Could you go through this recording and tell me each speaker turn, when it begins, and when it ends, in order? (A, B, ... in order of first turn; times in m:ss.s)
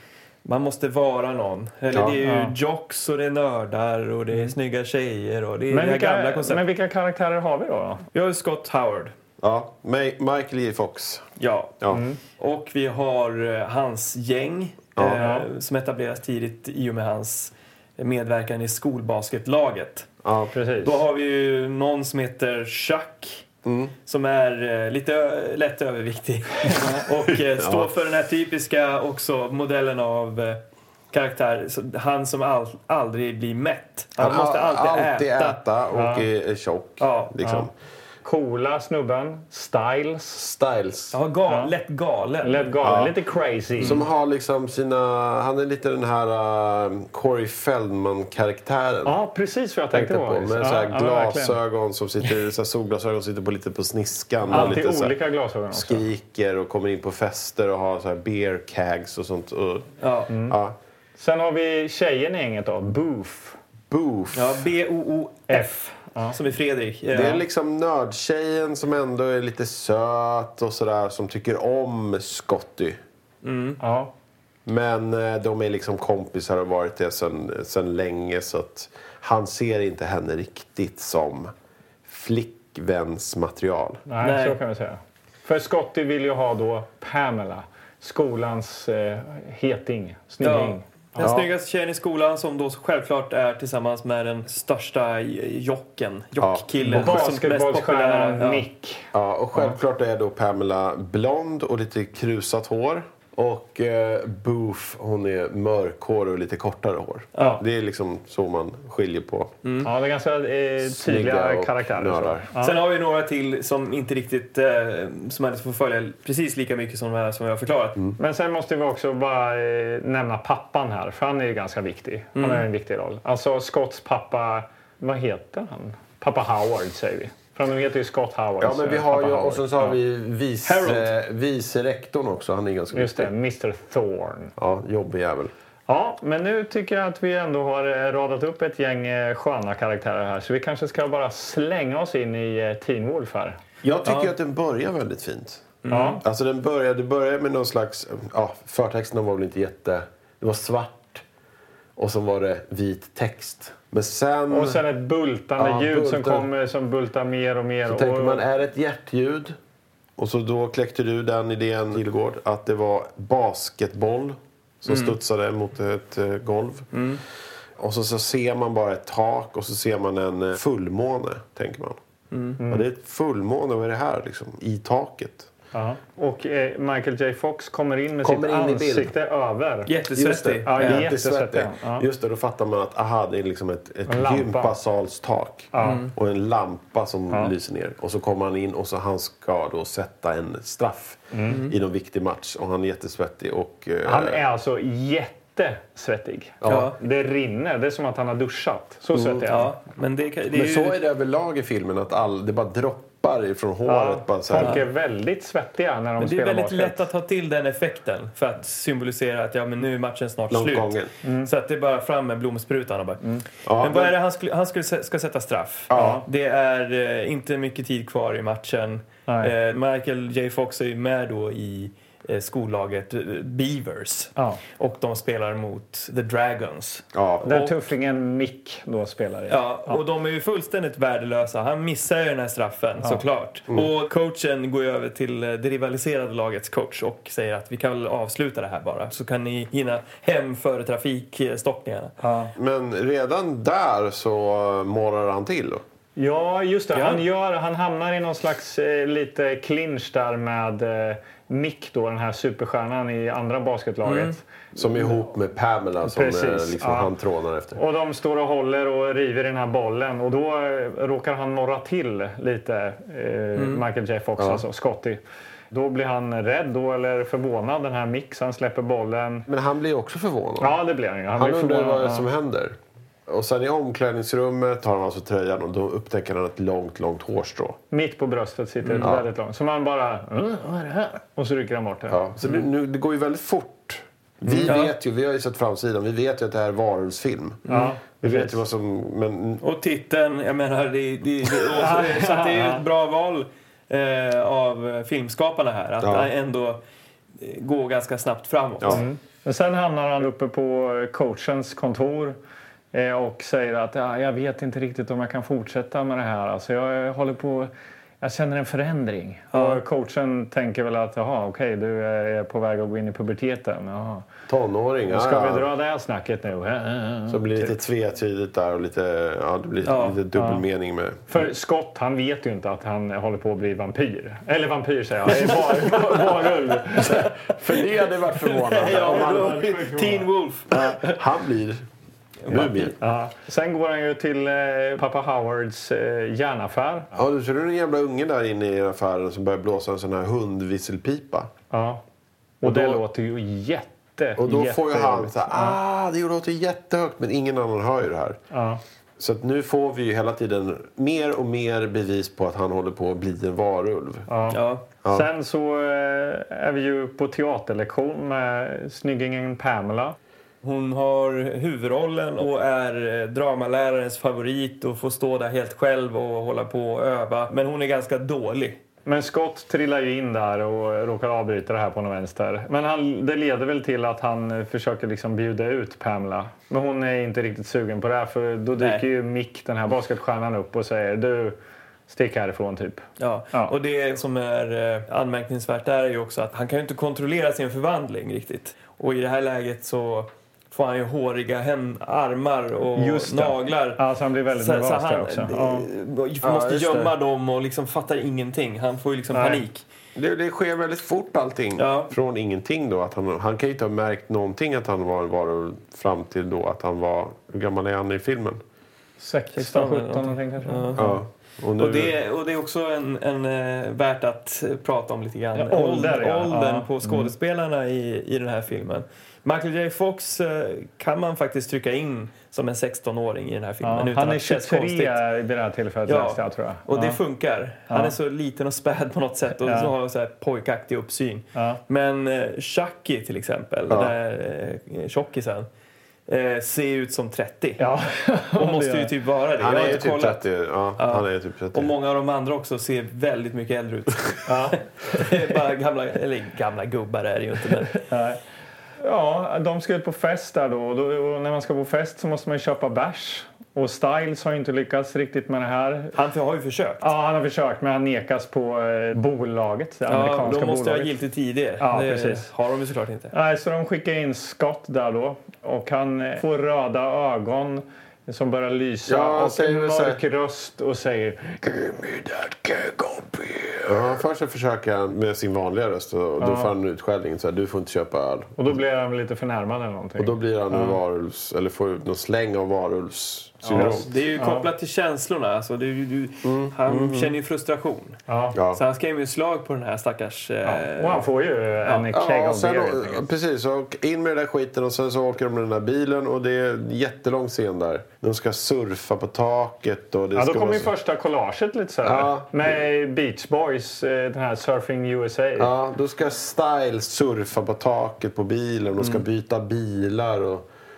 0:00.4-0:06.6 A
0:01.9-0:02.2 B
0:02.2-0:02.5 C
0:05.7-0:08.0 C
0:08.1-0:09.1 A
0:09.4-0:11.3 B
0:11.4-0:11.8 A
0:11.9-0:12.2 C
0:12.4-0:20.1 A
0:15.0-0:15.2 B
0:15.2-0:15.4 C
0:20.2-0:20.5 B
0:20.5-0:21.0 C
0:20.8-0:23.4 A
0:23.6-0:23.9 B
0:24.0-0:35.6 A
0:27.4-0:27.9 B
0:34.2-0:37.7 B
0:35.9-0:36.2 C
0:37.0-0:37.3 A
0:38.2-0:40.5 C
0:40.5-0:41.2 B
0:41.1-0:42.7 A
0:42.4-0:44.0 C
0:42.8-0:43.1 B
0:43.8-0:49.1 B
0:49.0-0:51.6 C
0:49.9-0:55.1 B
0:54.5-0:56.0 C
0:54.5-0:54.8 A
0:55.7-1:00.8 B
1:00.0-1:00.3 A
1:00.3-1:00.6 C
1:01.2-1:03.6 C
1:03.9-1:04.6 B
1:04.3-1:05.6 A
1:05.5-1:06.4 C
1:06.3-1:07.4 A
1:07.1-1:13.0 B
1:13.4-1:13.8 A
1:13.8-1:14.1 C
1:14.6-1:21.5 B
1:22.0-1:24.0 B
1:24.1-1:31.3 C
1:24.2-1:24.6 A
1:30.4-1:38.6 A
1:31.2-1:31.5 B
1:36.4-1:37.2 B
1:36.8-1:39.8 C
1:39.1-1:49.5 B
1:47.4-1:47.6 A
1:47.4-1:47.6 C
1:49.6-1:49.9 A
1:49.8-1:52.8 C
1:50.8-1:52.5 B
1:52.6-1:58.0 A
1:58.2-2:10.0 C
2:02.3-2:02.6 A
2:08.6-2:13.3 B
2:10.6-2:11.1 A
2:12.9-2:14.5 C
2:14.6-2:15.5 B
2:15.9-2:23.6 C
2:23.8-2:31.2 B
2:24.0-2:24.3 A
2:25.8-2:26.2 A
2:25.9-2:26.2 C
2:32.0-2:34.8 B
2:34.5-2:38.4 C
2:35.6-2:36.5 B
2:37.9-2:39.6 B
2:40.2-2:46.9 B
2:44.9-2:45.2 A
2:46.9-2:47.2 A
2:47.8-2:52.0 B
2:52.3-2:52.6 A
2:52.6-2:52.9 C
2:52.7-2:55.5 B
2:55.7-3:02.0 C
2:58.2-2:59.1 B
2:59.8-3:01.1 A
3:00.2-3:14.4 B
3:04.1-3:04.7 C
3:05.7-3:06.1 C
3:05.8-3:06.1 A
3:11.3-3:11.6 C
3:11.5-3:11.7 A
3:14.0-3:19.7 C
3:16.6-3:16.9 B
3:16.7-3:17.0 A
3:19.1-3:19.4 B
3:19.5-3:21.0 A
3:20.5-3:24.8 B
3:23.8-3:27.0 C
3:24.6-3:24.8 A
3:26.2-3:33.2 A
3:30.5-3:31.1 B
3:31.2-3:31.5 C
3:33.6-3:34.1 B
3:33.8-3:47.7 A
3:35.9-3:36.2 B
3:35.9-3:36.2 C
3:39.3-3:39.5 C
3:44.4-3:44.6 C
3:47.1-3:47.4 B
3:47.4-3:50.0 C
3:49.5-4:02.1 A
4:02.2-4:02.5 C
4:02.6-4:05.8 B
4:06.2-4:15.1 C
4:06.9-4:07.2 A
4:14.0-4:14.3 A
4:14.7-4:17.8 B
4:16.0-4:17.1 C
4:17.8-4:29.4 C
4:23.6-4:23.8 A
4:24.4-4:24.6 B
4:29.5-4:30.7 B
4:30.6-4:32.2 C
4:31.3-4:37.8 B
4:37.9-4:42.3 C
4:38.8-4:39.1 A
4:42.1-4:47.6 B
4:44.5-4:44.9 A
4:47.7-4:47.9 A
4:47.7-4:48.6 C
4:48.2-4:49.6 B
4:49.6-4:56.8 A
4:51.6-4:52.8 C
4:56.0-4:56.3 B
4:57.4-4:59.0 A
4:58.9-5:02.4 C
5:02.9-5:14.2 C
5:09.5-5:09.8 A
5:14.5-5:15.6 B
5:15.1-5:17.7 C
5:17.3-5:21.4 B
5:19.8-5:20.2 A
5:20.3-5:20.6 C
5:21.3-5:27.4 C
5:25.8-5:26.2 B
5:27.0-5:29.6 B
5:28.5-5:31.1 A
5:28.8-5:30.9 C
5:30.7-5:31.8 B
5:32.4-5:32.9 A
5:32.5-5:32.9 B
5:33.0-5:37.1 C
5:37.1-5:41.5 B
5:41.7-5:42.0 C
5:42.6-5:45.8 C
5:42.6-5:43.0 B
5:44.4-5:48.4 B
5:48.5-5:48.8 C
5:49.2-5:54.2 B
5:54.3-6:00.2 C
5:54.5-5:54.8 A
6:00.6-6:08.8 A
6:09.0-6:21.6 C
6:18.8-6:19.0 A
6:22.1-6:23.7 C
6:23.2-6:34.0 A
6:32.9-6:35.8 C
6:34.5-6:39.8 A
6:36.4-6:37.1 B
6:39.3-6:39.6 C
6:40.1-6:48.6 B
6:41.8-6:42.1 A
6:49.2-6:51.0 C
6:49.5-6:51.2 A
6:51.0-6:52.1 B
6:51.8-7:05.2 A
6:55.5-6:57.3 C
7:03.8-7:07.2 C
7:06.1-7:15.7 A
7:07.9-7:08.2 C
7:09.6-7:09.9 C
7:11.5-7:11.8 C
7:16.3-7:17.8 A
7:17.8-7:19.1 C
7:18.6-7:20.4 A
7:19.6-7:21.9 B
7:21.0-7:24.6 A
7:24.5-7:25.4 C
7:25.1-7:28.0 A
7:27.9-7:28.4 C
7:29.0-7:36.2 C
7:36.1-7:37.1 A
7:37.0-7:41.1 C
7:40.1-7:43.3 A
7:41.8-7:42.5 C
7:43.3-7:53.9 C
7:49.0-7:50.2 B
7:53.8-7:58.6 B
7:56.4-7:56.7 C
7:58.6-8:01.0 C
8:00.2-8:04.0 B
8:03.6-8:04.7 C
8:03.7-8:08.2 A
8:06.4-8:07.3 B
8:08.3-8:08.6 C
8:08.5-8:08.8 B
8:08.7-8:11.2 A
8:10.6-8:13.2 C
8:12.1-8:20.9 B
8:20.3-8:25.7 C
8:22.0-8:22.8 B
8:25.6-8:30.7 B
8:29.0-8:29.2 A